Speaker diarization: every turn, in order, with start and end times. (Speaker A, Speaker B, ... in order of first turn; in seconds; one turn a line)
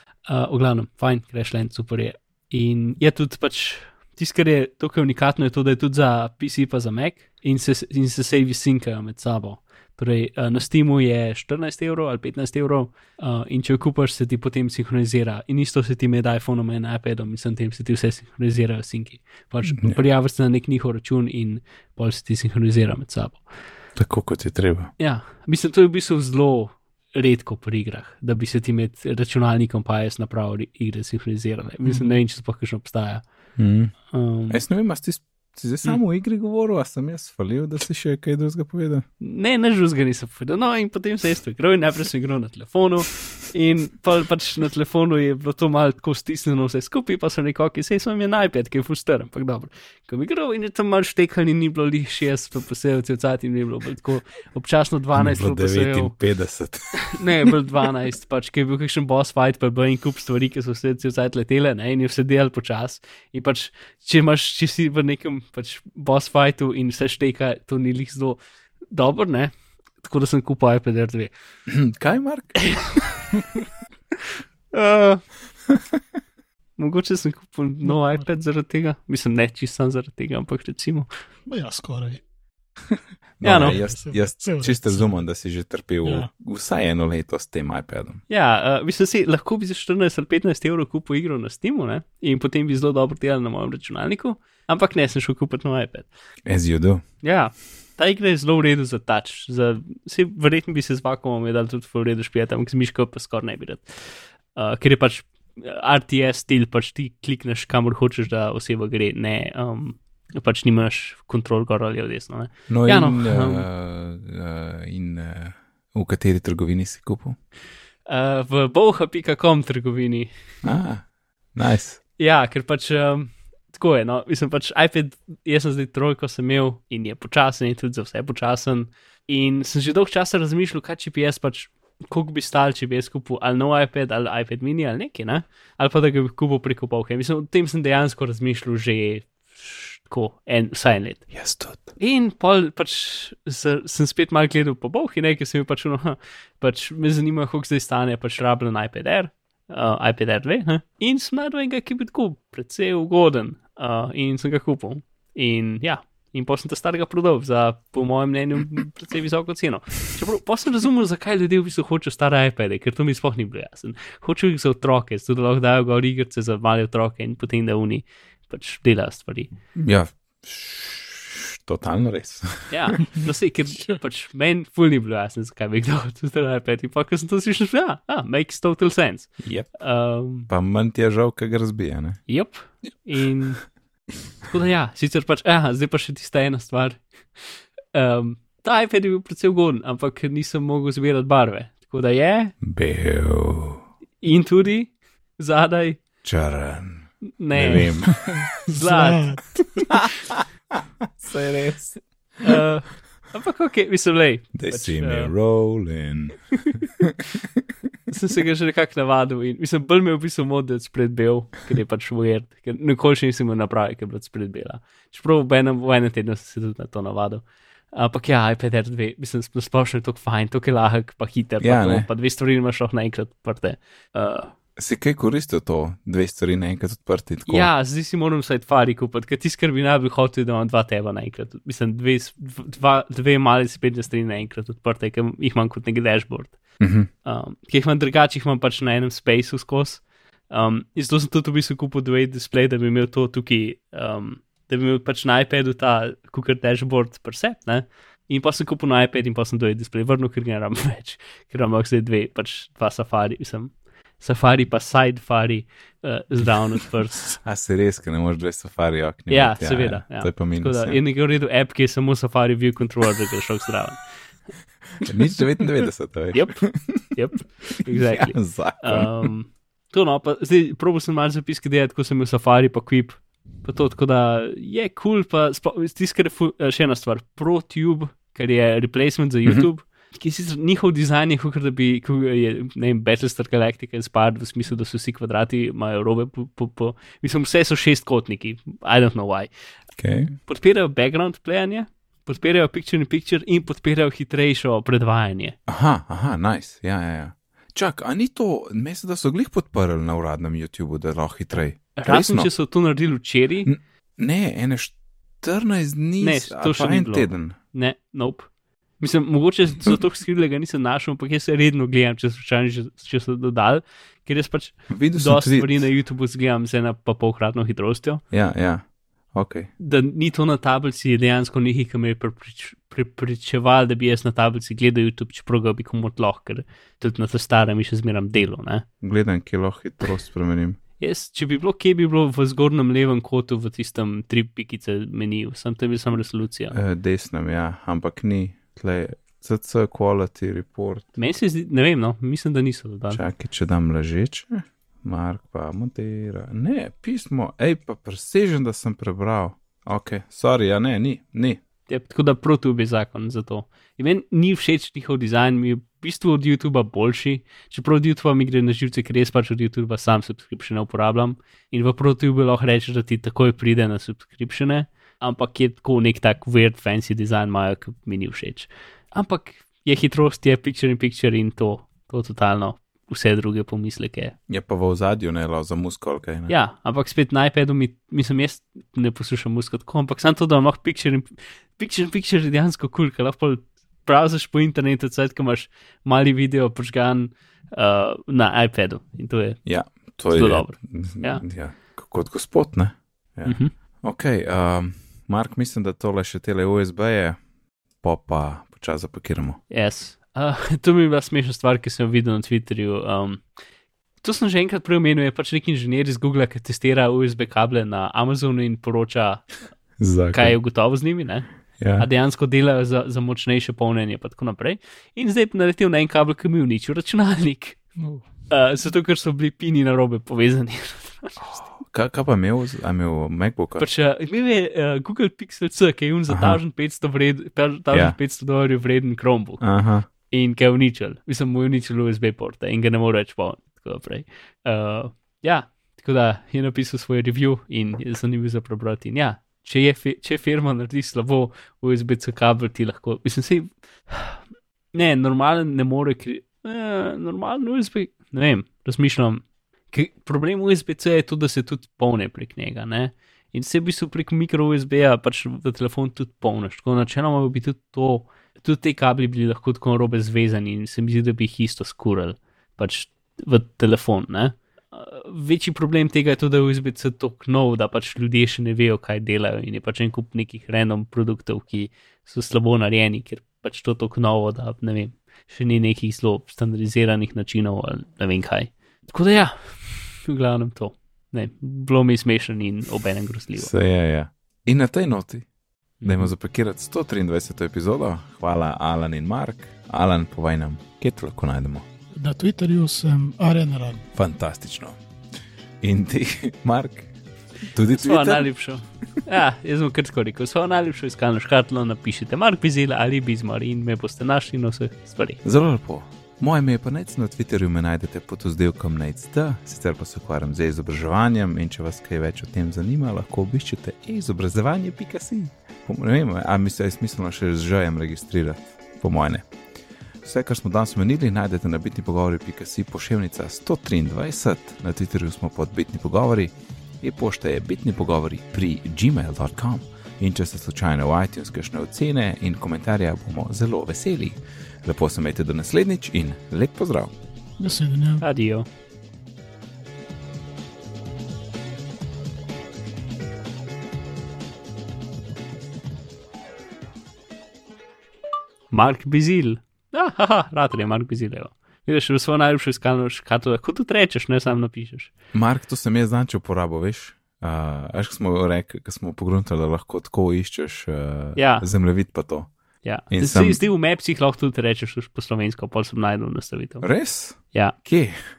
Speaker A: 0.2-23.4
Speaker B: 23.9-24.9
Speaker A: 25.0-33.2
Speaker B: 33.6-33.9
Speaker A: 34.1-34.6
Speaker B: 34.5-39.0
Speaker A: 39.2-56.1
Speaker B: 55.1-57.5
Speaker A: 57.0-68.4
Speaker A: 68.9-71.3
Speaker B: 71.7-73.2
Speaker A: 74.7-75.2
Speaker A: 76.8-81.1
Speaker C: 81.5-82.2
Speaker C: 82.8-85.2
Speaker B: 83.4-88.2
Speaker A: 83.4-83.8
Speaker C: 86.0-86.3
Speaker A: 88.3-96.1
Speaker B: 96.5-97.0
Speaker A: 97.2-113.7
Speaker B: 112.7-117.4
Speaker A: 118.0-120.3
Speaker B: 120.6-122.0
Speaker A: 122.2-141.2
Speaker B: 141.3-141.9
Speaker A: 142.0-169.5
Speaker B: 169.7-173.2
Speaker A: 172.7-180.5
Speaker B: 179.4-179.7
Speaker B: 180.5-182.2
Speaker A: 182.3-183.6
Speaker A: 184.4-192.6
Speaker B: 192.6-193.8
Speaker A: 194.2-196.0
Speaker B: 196.2-198.5
Speaker A: 197.4-198.0
Speaker C: 198.3-199.9
Speaker A: 198.7-199.4
Speaker B: 199.9-202.6
Speaker A: 202.4-205.3
Speaker B: 204.5-207.6
Speaker A: 208.1-224.5
Speaker B: 221.6-222.1
Speaker B: 224.8-227.7
Speaker A: 227.5-236.6
Speaker B: 236.8-237.1
Speaker A: 237.2-257.4
Speaker B: 257.3-261.0
Speaker A: 259.3-264.0
Speaker B: 264.9-267.1
Speaker A: 266.3-289.5
Speaker B: 267.8-269.3
Speaker B: 290.0-290.4
Speaker A: 290.4-295.6
Speaker B: 295.7-302.5
Speaker A: 302.0-303.7
Speaker B: 303.6-307.5
Speaker A: 306.2-308.5
Speaker A: 309.0-318.2
Speaker B: 314.9-315.9
Speaker B: 318.3-319.7
Speaker A: 319.8-328.8
Speaker B: 329.0-330.8
Speaker A: 331.0-336.7
Speaker B: 336.7-341.1
Speaker A: 341.1-343.2
Speaker B: 343.1-351.6
Speaker A: 351.9-374.3
Speaker B: 374.5-376.5
Speaker A: 376.5-389.6
Speaker B: 389.6-397.4
Speaker A: 390.3-391.4
Speaker A: 393.4-393.7
Speaker B: 398.0-399.6
Speaker A: 399.7-403.4
Speaker A: 404.2-409.5
Speaker B: 410.0-410.6
Speaker A: 410.3-417.8
Speaker B: 411.8-412.1
Speaker C: 418.0-418.2
Speaker A: 418.5-421.4
Speaker B: 421.4-423.9
Speaker A: 423.8-429.6
Speaker B: 426.3-426.6
Speaker B: 427.9-428.2
Speaker B: 429.6-430.1
Speaker A: 430.3-444.4
Speaker A: 444.9-483.7
Speaker B: 483.6-485.4
Speaker A: 486.0-486.3
Speaker B: 486.0-491.8
Speaker C: 492.1-494.0
Speaker B: 494.1-494.9
Speaker B: 495.8-497.1
Speaker B: 497.7-498.5
Speaker A: 497.9-505.4
Speaker B: 505.4-519.4
Speaker B: 520.2-537.1
Speaker C: 537.6-538.2
Speaker A: 538.2-538.6
Speaker A: 548.7-555.1
Speaker B: 555.3-562.5
Speaker A: 561.4-561.7
Speaker A: 562.8-566.9
Speaker B: 563.1-563.6
Speaker B: 566.8-568.3